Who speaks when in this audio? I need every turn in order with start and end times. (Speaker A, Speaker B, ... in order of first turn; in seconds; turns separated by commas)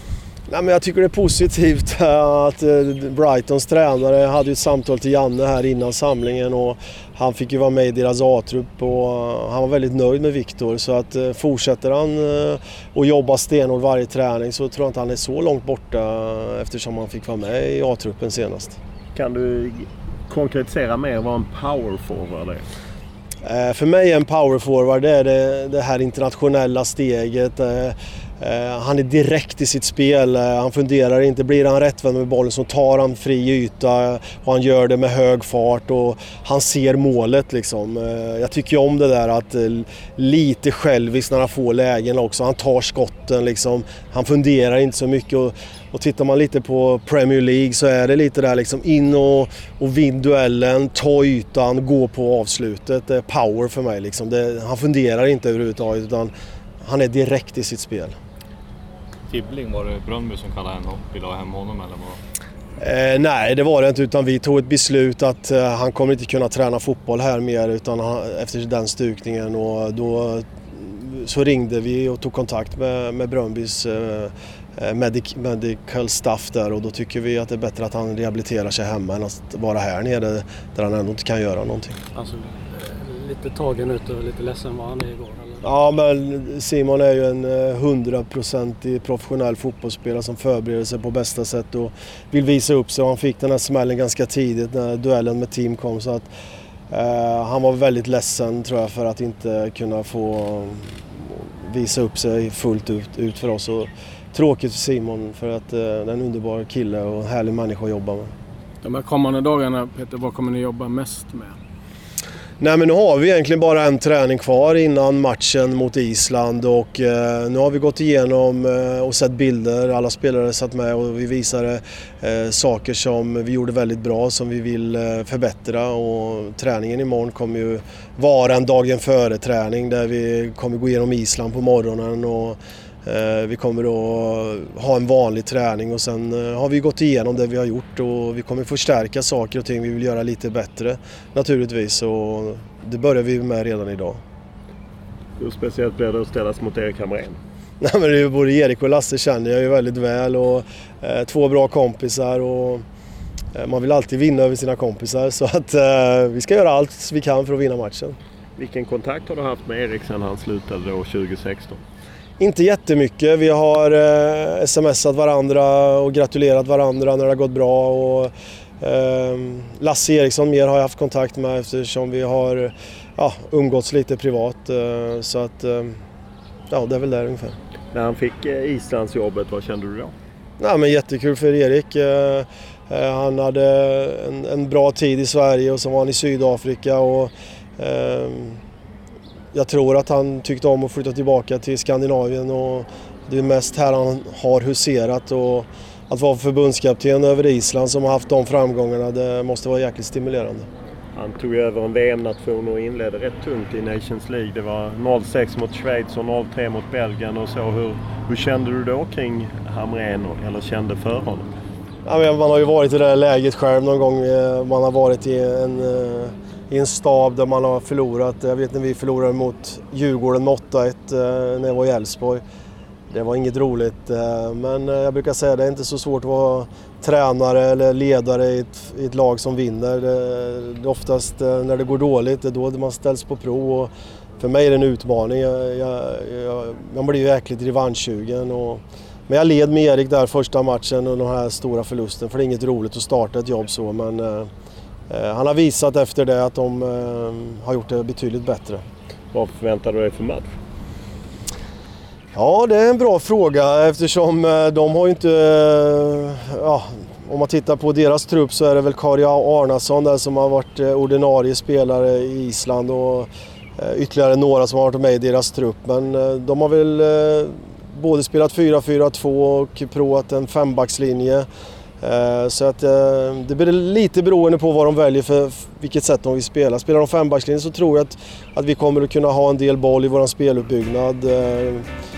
Speaker A: 0.5-18.8, Speaker B: 19.1-22.6, Speaker A: 23.4-56.3, Speaker A: 56.8-58.1, Speaker C: 59.3-62.2, Speaker A: 62.8-82.0, Speaker D: 82.1-85.6, Speaker A: 85.6-96.3, Speaker A: 96.9-108.3, Speaker E: 108.8-111.6, Speaker A: 112.6-144.2, Speaker B: 145.4-147.4, Speaker A: 147.8-152.8, Speaker A: 153.5-158.2, Speaker B: 158.6-161.8, Speaker A: 162.4-176.0, Speaker A: 176.7-177.6, Speaker B: 177.9-180.1, Speaker A: 180.6-188.6, Speaker A: 189.5-200.7, Speaker B: 201.2-211.5, Speaker A: 212.0-222.4, Speaker A: 223.1-244.5, Speaker A: 245.1-248.8, Speaker B: 249.3-250.5, Speaker A: 252.3-271.5, Speaker A: 272.0-281.9